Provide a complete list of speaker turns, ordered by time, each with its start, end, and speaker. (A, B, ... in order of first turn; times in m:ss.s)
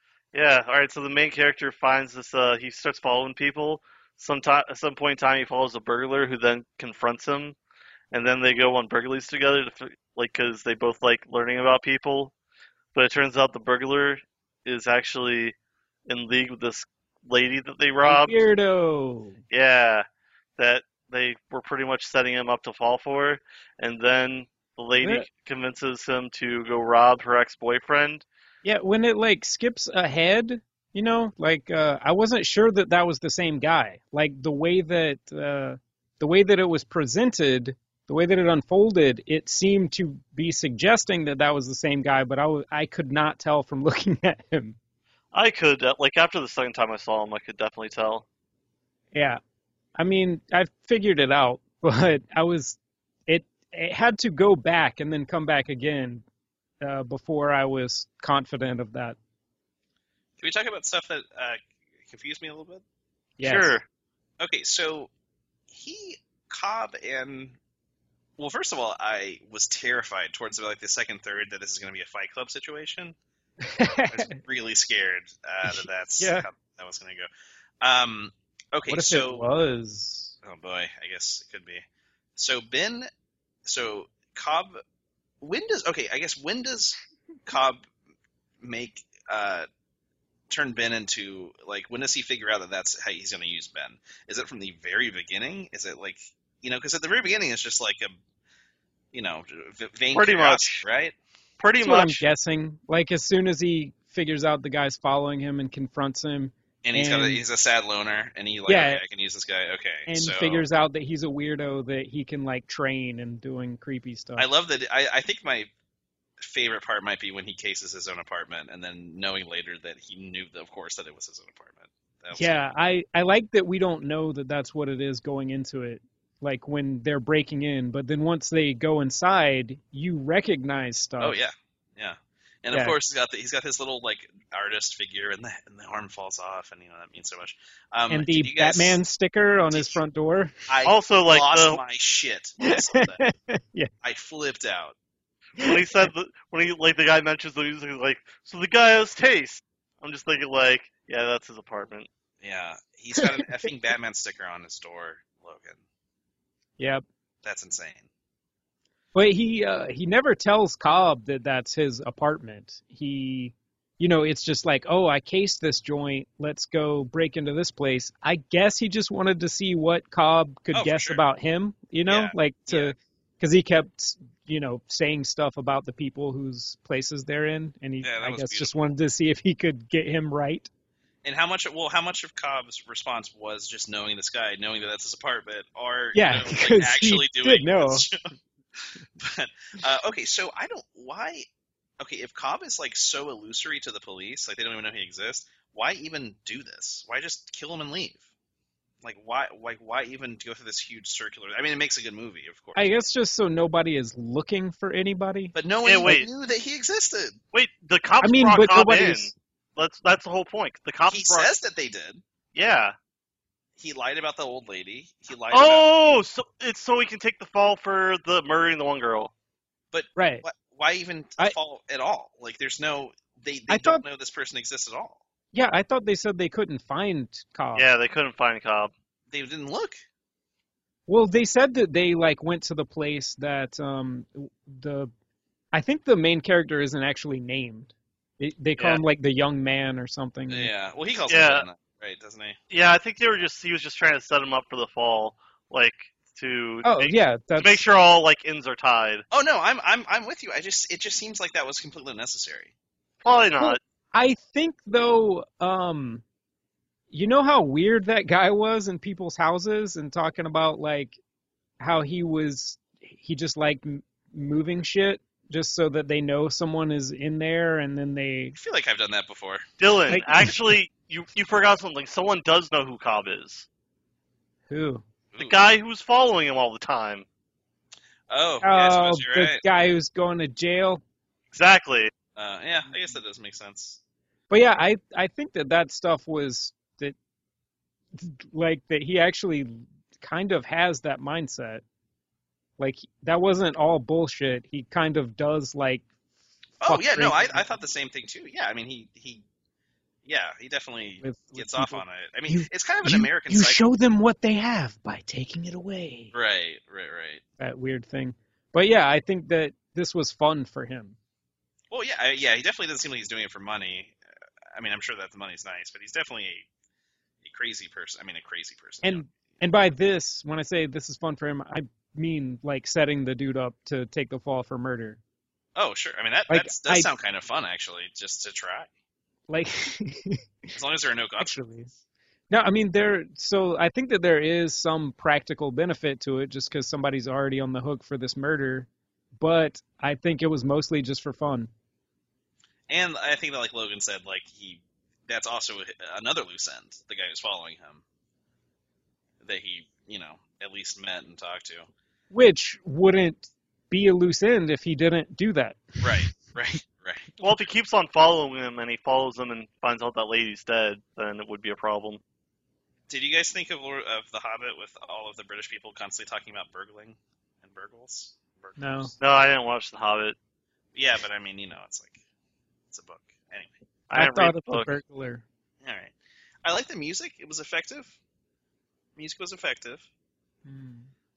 0:00.3-0:07.6 A
0:08.1-0:12.3 A
0:13.0-0:15.6 A
0:16.1-0:18.4 A
0:18.0-0:19.4 B
0:19.5-0:20.1 A
0:20.6-0:28.2 A
0:25.0-0:25.3 B
0:28.6-0:44.8 B
0:45.3-0:48.2 A
0:49.1-0:49.4 B
0:50.0-0:56.2 B
0:56.8-0:59.2 B
1:00.4-1:02.8 C
1:03.4-1:03.8 B
1:03.4-1:03.8 A
1:04.4-1:05.1 C
1:05.7-1:07.6 C
1:08.4-1:13.2 C
1:13.6-1:14.4 B
1:14.0-1:17.3 C
1:15.6-1:16.5 B
1:17.8-1:19.4 C
1:18.9-1:20.4 B
1:20.4-1:21.8 C
1:22.4-1:23.1 C
1:23.6-1:24.8 C
1:25.4-1:27.9 C
1:28.6-1:29.7 C
1:30.5-1:38.1 C
1:39.1-1:41.2 C
1:40.1-1:40.8 A
1:41.6-1:42.2 A
1:41.8-1:47.4 B
1:46.8-1:50.6 C
1:48.7-1:49.0 B
1:50.1-1:54.5 B
1:54.4-1:55.7 C
1:56.4-2:02.6 C
2:02.3-2:11.4 B
2:11.2-2:19.0 C
2:12.7-2:13.0 B
2:18.1-2:20.6 B
2:19.7-2:20.0 C
2:20.7-2:23.2 C
2:20.8-2:21.8 A
2:22.6-2:23.9 B
2:24.0-2:25.0 C
2:25.6-2:26.1 B
2:25.6-2:32.1 A
2:32.4-2:35.8 C
2:33.2-2:33.7 B
2:36.8-2:37.0 B
2:37.4-2:38.1 C
2:39.1-3:00.7 B
2:50.7-2:51.2 C
2:52.1-2:53.0 C
2:58.0-2:58.8 C
3:01.2-3:08.2 C
3:06.1-3:08.1 B
3:08.8-3:11.5 C
3:12.0-3:18.2 C
3:19.0-3:22.9 C
3:22.8-3:25.5 B
3:25.5-3:27.4 C
3:25.8-3:26.3 A
3:27.5-3:31.5 A
3:28.2-3:29.3 B
3:31.1-3:32.2 C
3:32.6-3:33.0 A
3:33.8-3:35.8 C
3:35.5-3:39.3 A
3:39.9-3:45.2 C
3:40.2-3:40.4 B
3:43.7-3:44.0 B
3:45.5-3:47.9 B
3:47.8-3:48.9 A
3:49.3-3:50.0 C
3:51.1-3:55.1 B
3:55.7-4:00.7 B
4:00.5-4:02.6 C
4:01.3-4:01.7 A
4:02.7-4:09.2 A
4:06.8-4:07.8 B
4:09.3-4:12.7 C
4:13.2-4:13.8 A
4:13.6-4:16.2 B
4:17.1-4:21.2 B
4:21.8-4:28.6 B
4:28.6-4:29.7 C
4:29.8-4:33.7 A
4:30.1-4:30.6 B
4:34.7-4:35.0 B
4:35.3-4:35.6 C
4:35.4-4:37.3 A
4:38.3-4:39.6 C
4:38.6-4:41.0 B
4:41.5-4:42.1 A
4:42.4-4:44.0 C
4:44.5-4:47.2 B
4:48.2-4:51.8 B
4:52.8-4:56.1 B
4:56.8-4:59.4 C
4:56.8-4:57.7 B
5:00.2-5:03.8 C
5:01.2-5:06.3 B
5:06.3-5:07.4 C
5:07.6-5:11.2 B
5:11.9-5:14.2 C
5:14.7-5:16.7 C
5:17.4-5:19.3 C
5:19.0-5:25.2 B
5:25.8-5:28.9 C
5:26.5-5:27.1 B
5:29.5-5:30.4 B
5:30.7-5:31.6 C
5:31.4-5:31.9 B
5:32.5-5:41.7 B
5:42.9-5:48.0 C
5:49.4-5:51.9 C
5:52.3-5:56.3 B
5:56.0-5:57.4 C
5:57.4-6:02.2 A
6:03.1-6:09.2 C
6:08.8-6:09.1 B
6:09.2-6:10.4 A
6:10.9-6:12.2 C
6:12.9-6:13.8 C
6:14.1-6:14.9 A
6:14.1-6:15.4 B
6:15.8-6:18.2 C
6:19.2-6:20.1 C
6:20.6-6:21.1 B